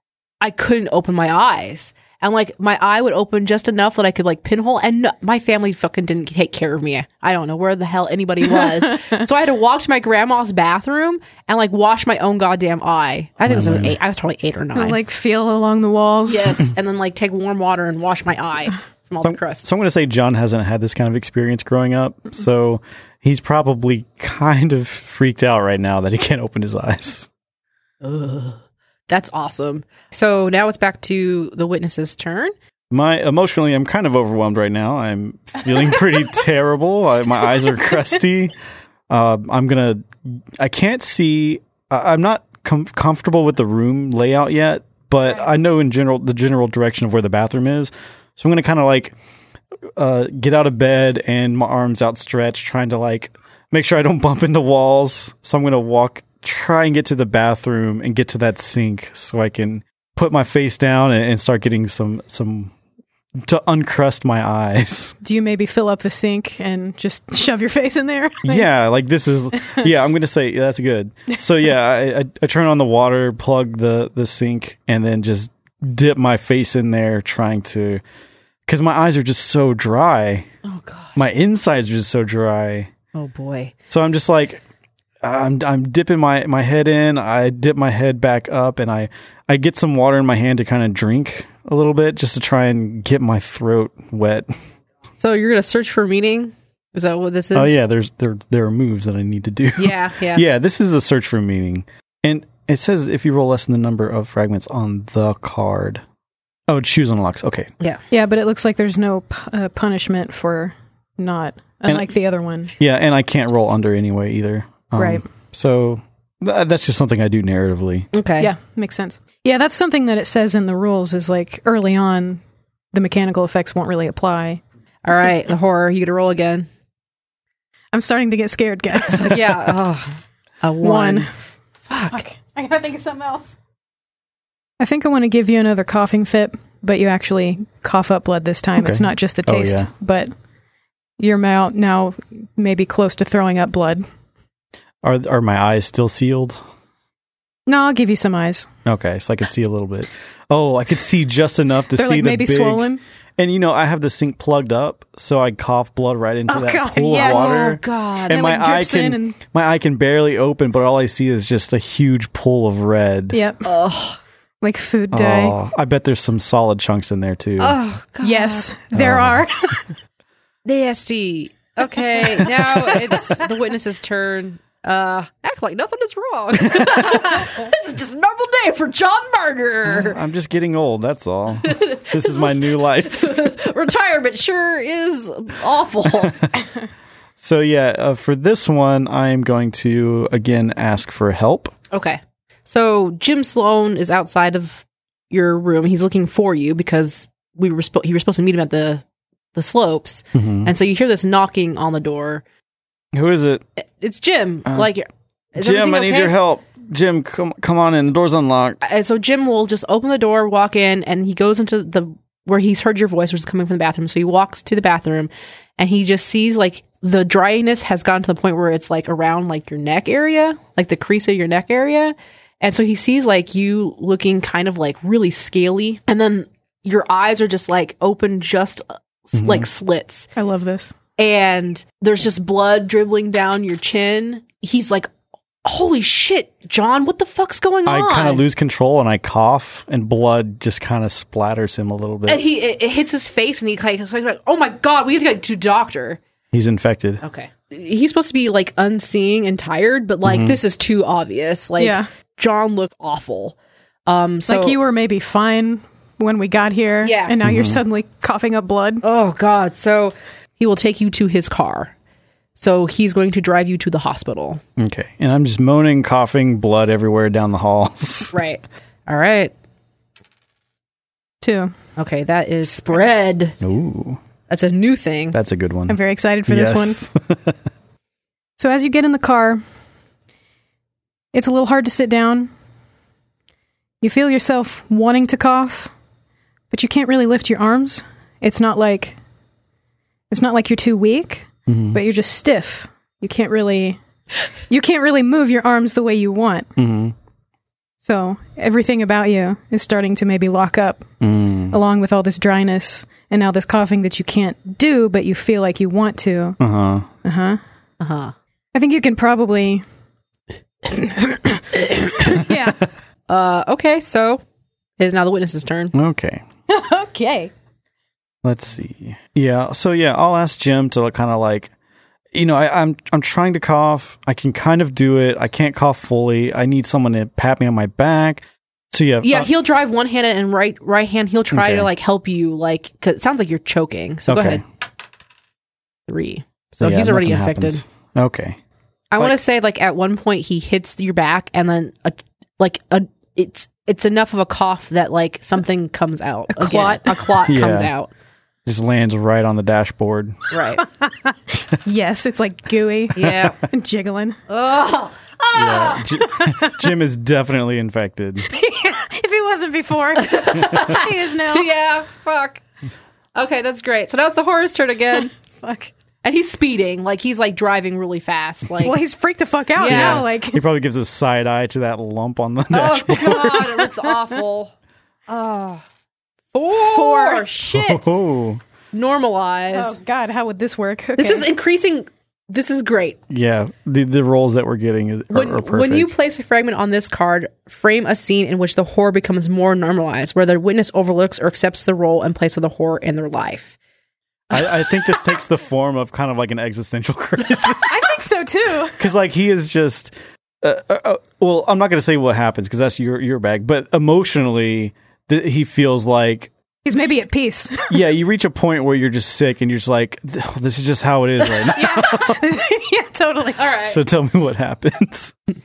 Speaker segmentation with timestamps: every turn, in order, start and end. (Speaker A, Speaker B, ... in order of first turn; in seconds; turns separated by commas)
Speaker A: 0.4-15.0, Speaker B: 13.5-13.9, Speaker C: 14.7-16.7, Speaker A: 16.3-19.6, Speaker B: 19.2-27.3, Speaker A: 28.0-32.5, Speaker B: 32.9-38.5, Speaker B: 39.1-40.0, Speaker B: 40.6-49.1, Speaker B: 50.0-62.7, Speaker B: 63.4-65.1, Speaker C: 65.2-68.7, Speaker B: 68.4-78.0, Speaker B: 78.7-80.5, Speaker A: 80.6-81.2, Speaker B: 81.1-82.9, Speaker A: 83.1-83.7, Speaker B: 83.9-84.6, Speaker B: 85.2-94.5, Speaker A: 95.2-97.8, Speaker B: 97.5-106.0, Speaker A: 99.8-100.4, Speaker B: 106.7-107.7, Speaker C: 108.1-112.7, Speaker B: 111.9-112.1, Speaker B: 112.8-118.1, Speaker C: 115.0-115.2, Speaker A: 118.1-118.5, Speaker C: 118.4-122.4, Speaker C: 122.9-124.6, Speaker A: 125.0-126.7, Speaker C: 127.9-129.7, Speaker A: 129.0-131.3, Speaker C: 130.8-131.3, Speaker A: 131.9-132.2, Speaker C: 132.1-133.6, Speaker C: 134.8-140.3, Speaker B: 138.8-139.9, Speaker C: 141.2-144.0, Speaker B: 145.0-146.6, Speaker C: 147.7-148.7, Speaker B: 148.8-152.8, Speaker C: 151.9-153.0, Speaker B: 153.4-163.4, Speaker C: 156.5-159.4, Speaker A: 157.1-158.4, Speaker C: 163.3-163.6, Speaker A: 163.6-164.2, Speaker C: 164.6-165.6, Speaker B: 165.1-167.8, Speaker A: 167.6-168.7, Speaker C: 168.2-169.8, Speaker B: 168.9-169.4, Speaker A: 170.6-180.2, Speaker B: 179.8-183.4, Speaker A: 181.6-186.5, Speaker B: 186.2-186.5, Speaker B: 187.4-191.7, Speaker A: 191.9-202.4, Speaker B: 200.3-200.7, Speaker B: 203.1-203.6, Speaker A: 204.0-206.3, Speaker B: 205.6-208.8, Speaker A: 208.8-230.3, Speaker B: 229.3-229.7, Speaker C: 230.3-230.9, Speaker A: 231.2-235.1, Speaker A: 235.6-238.4, Speaker B: 237.8-242.4, Speaker A: 242.2-246.2, Speaker B: 246.5-247.2, Speaker A: 247.2-254.8, Speaker B: 250.2-250.6, Speaker C: 251.8-252.1, Speaker C: 254.5-259.0, Speaker A: 257.0-257.3, Speaker B: 257.4-257.8, Speaker A: 259.0-261.9, Speaker A: 262.6-264.6, Speaker B: 264.8-268.3, Speaker A: 268.3-269.5, Speaker C: 271.4-271.7, Speaker A: 272.0-273.6, Speaker B: 273.6-274.2, Speaker A: 274.5-275.4, Speaker B: 275.3-277.5, Speaker C: 275.9-277.0, Speaker C: 278.6-279.6, Speaker C: 281.3-282.5, Speaker C: 284.0-285.9, Speaker C: 286.7-289.2, Speaker C: 290.3-294.0, Speaker B: 291.7-292.0, Speaker C: 294.7-296.7, Speaker B: 296.8-297.1, Speaker C: 298.0-301.1, Speaker B: 301.2-301.8, Speaker C: 301.7-306.6, Speaker B: 306.6-307.1, Speaker C: 307.2-307.6, Speaker A: 308.0-308.3, Speaker C: 308.7-309.8, Speaker C: 310.8-312.8, Speaker A: 313.3-314.4, Speaker A: 315.0-315.9, Speaker B: 315.9-316.4, Speaker C: 316.7-317.5, Speaker B: 318.4-321.7, Speaker B: 322.3-329.5, Speaker A: 329.2-334.6, Speaker B: 331.5-331.9, Speaker B: 334.3-334.6, Speaker A: 336.1-337.8, Speaker B: 336.8-338.6, Speaker A: 339.1-348.1, Speaker C: 346.5-347.3, Speaker B: 347.4-347.9, Speaker B: 348.6-350.4, Speaker A: 350.5-350.8, Speaker C: 350.8-354.4, Speaker A: 353.1-353.6, Speaker B: 353.2-353.5, Speaker A: 354.5-356.0, Speaker B: 355.5-358.5, Speaker C: 356.2-356.9, Speaker C: 358.4-361.7, Speaker A: 360.1-362.6, Speaker A: 363.3-365.3, Speaker C: 365.4-365.9, Speaker A: 366.2-369.0, Speaker C: 368.8-370.6, Speaker A: 369.8-370.2, Speaker B: 369.8-373.8, Speaker A: 372.7-374.7, Speaker A: 375.3-375.8, Speaker A: 376.5-378.2, Speaker C: 376.7-377.4, Speaker B: 377.7-378.6, Speaker A: 378.9-380.0, Speaker C: 379.7-381.5, Speaker A: 381.2-383.2, Speaker B: 383.3-386.1, Speaker A: 385.3-393.8, Speaker B: 394.5-398.1, Speaker C: 397.9-399.0, Speaker B: 399.0-406.5, Speaker C: 406.8-408.0, Speaker B: 407.9-412.4, Speaker C: 411.7-413.6, Speaker A: 413.6-414.0, Speaker B: 413.8-415.3